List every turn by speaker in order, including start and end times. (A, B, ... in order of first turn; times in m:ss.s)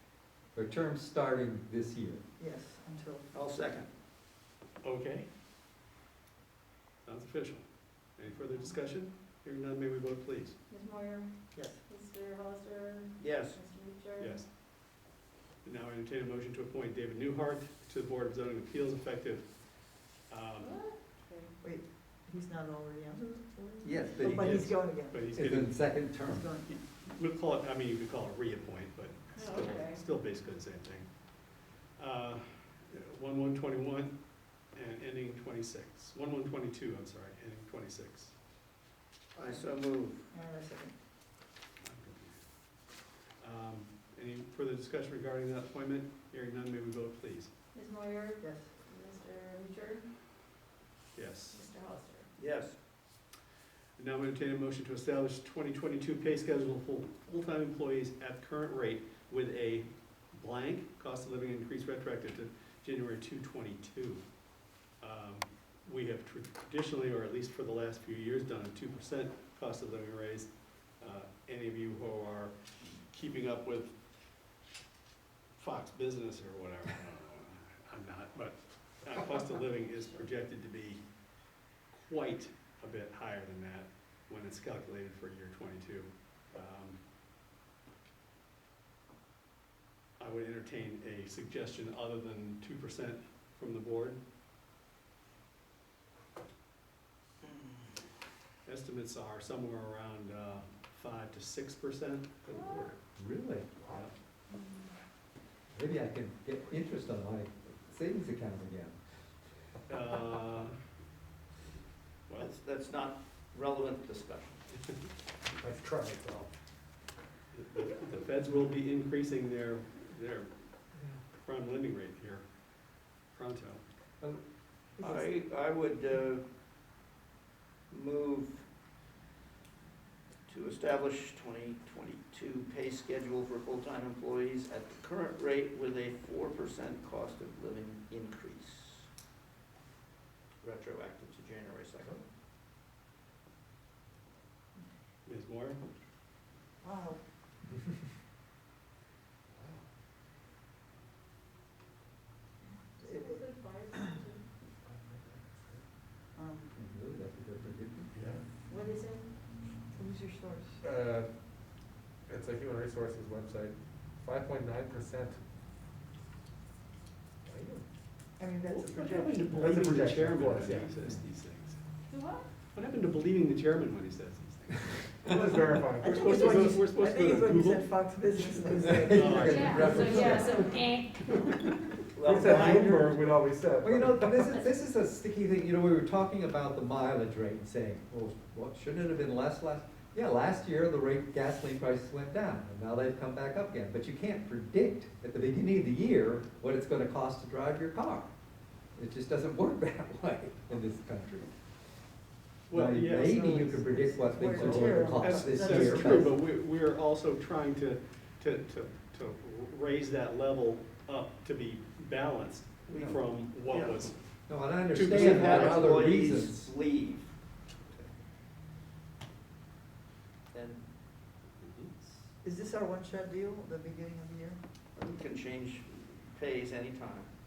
0:00.5-0:02.2 A
0:02.4-0:03.3 B
0:03.3-0:03.9 C
0:04.8-0:05.3 D
0:07.0-0:10.6 D
0:10.7-0:14.4 E
0:11.5-0:11.8 B
0:13.2-0:13.6 C
0:14.2-0:14.5 D
0:15.6-0:19.7 D
0:20.3-0:20.8 D
0:20.6-0:21.5 E
0:21.6-0:25.2 B
0:23.8-0:24.7 A
0:24.2-0:25.8 D
0:25.3-0:26.5 A
0:26.2-0:26.8 B
0:26.7-0:31.1 D
0:29.3-0:30.0 E
0:32.0-0:34.1 D
0:34.7-0:38.3 D
0:39.3-0:40.3 C
0:40.3-0:40.9 B
0:41.8-0:42.4 D
0:43.4-0:47.5 D
0:47.7-0:50.1 E
0:48.4-0:48.7 B
0:51.1-0:51.6 D
0:51.5-0:52.3 E
0:52.4-0:52.8 C
0:54.0-1:04.2 D
1:05.0-1:14.0 D
1:15.6-1:21.0 D
1:21.9-1:27.0 D
1:30.2-1:34.2 D
1:38.6-1:42.5 D
1:42.5-1:42.9 E
1:42.5-1:43.0 F
1:43.2-1:43.7 A
1:43.8-1:44.0 F
1:44.5-1:44.9 E
1:45.7-1:49.0 A
1:49.9-1:50.7 D
1:52.4-1:54.6 C
1:55.5-1:56.5 F
1:57.5-2:00.5 D
2:01.4-2:02.4 D
2:03.3-2:03.8 D
2:05.0-2:05.3 B
2:05.0-2:06.4 C
2:07.9-2:08.6 C
2:10.5-2:19.1 C
2:20.6-2:22.1 C
2:25.2-2:25.8 D
2:26.8-2:27.2 B
2:29.6-2:29.8 F
2:33.0-2:34.4 E
2:33.0-2:34.1 B
2:34.8-2:35.8 F
2:36.3-2:36.7 B
2:36.7-2:38.1 A
2:38.1-2:38.4 F
2:38.6-2:39.3 E
2:39.9-2:40.8 B
2:40.8-2:41.3 F
2:42.3-2:45.4 F
2:47.4-2:47.8 F
2:48.4-2:49.7 B
2:48.6-2:51.8 D
2:49.5-2:51.0 F
2:52.1-2:52.5 E
2:52.7-2:55.1 D
2:55.3-2:56.3 F
2:55.3-3:00.7 B
2:56.0-3:00.4 D
2:58.9-3:00.6 A
2:59.4-3:01.4 E
3:02.1-3:02.9 C
3:02.2-3:04.5 F
3:02.3-3:03.2 B
3:03.8-3:18.3 A
3:04.4-3:04.8 E
3:18.9-3:21.5 A
3:22.7-3:23.7 D
3:22.7-3:26.3 A
3:23.1-3:26.3 B
3:24.6-3:34.4 D
3:32.9-3:33.2 A
3:33.7-3:34.1 C
3:34.5-3:36.7 A
3:34.9-3:35.7 D
3:35.0-3:37.3 C
3:40.5-3:40.9 C
3:41.6-3:41.9 D
3:42.4-3:44.6 B
3:45.0-3:47.3 C